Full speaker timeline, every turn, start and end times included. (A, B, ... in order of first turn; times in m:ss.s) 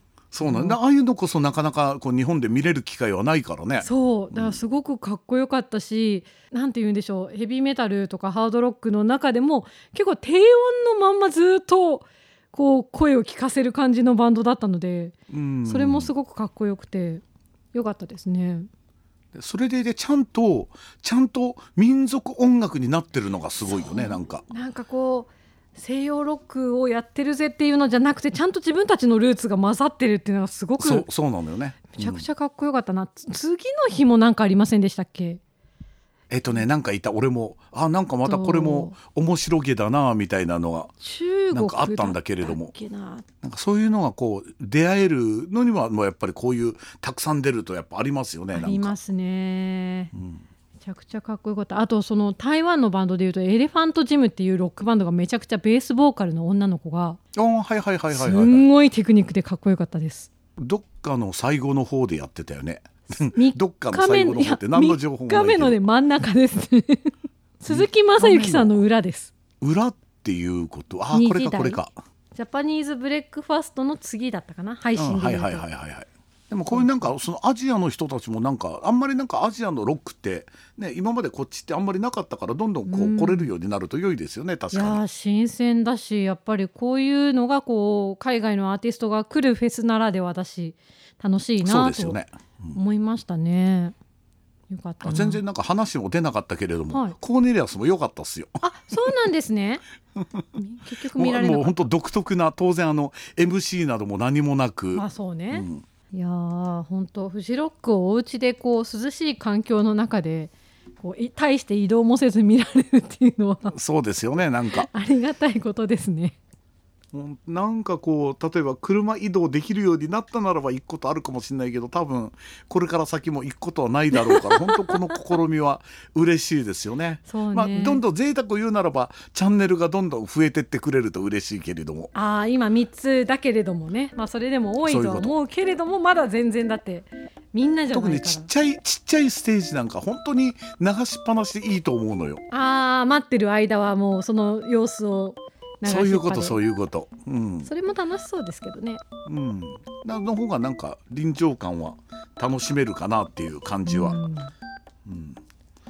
0:00.3-0:04.6 A
0:00.4-0:00.8 B
0:03.8-0:15.1 B
0:15.3-0:16.1 A
0:15.6-0:17.2 B
0:17.7-0:18.7 B
0:19.3-0:24.4 A
0:23.6-0:31.0 B
0:30.8-0:32.3 A
0:31.9-0:35.4 B
0:36.3-0:40.9 A
0:38.2-0:39.0 B
0:41.0-0:43.2 B
0:41.5-0:42.7 A
0:43.4-0:48.9 A
0:48.5-0:50.1 B
0:50.1-0:50.4 A
0:50.8-0:57.2 B
0:57.3-0:58.7 A
0:58.1-1:00.3 B
1:00.6-1:05.8 A
1:03.3-1:09.3 B
1:07.7-1:08.8 A
1:09.6-1:11.9 A
1:11.1-1:11.8 B
1:12.3-1:15.6 B
1:15.0-1:25.0 A
1:16.7-1:17.1 B
1:22.9-1:23.5 B
1:24.7-1:32.2 B
1:31.6-1:32.8 A
1:32.7-1:33.9 B
1:34.7-1:35.4 B
1:35.0-1:38.6 A
1:38.6-1:39.8 B
1:40.5-1:41.8 B
1:41.0-1:45.8 A
1:44.9-1:53.7 B
1:53.7-1:54.9 A
1:54.7-1:56.4 B
1:57.1-2:12.1 A
2:04.1-2:05.0 B
2:07.2-2:08.0 B
2:12.1-2:18.5 B
2:14.8-2:15.3 A
2:17.9-2:22.4 A
2:22.5-2:26.6 B
2:25.8-2:27.7 A
2:27.6-2:29.0 B
2:29.2-2:34.2 A
2:33.8-2:34.5 B
2:35.0-2:35.4 A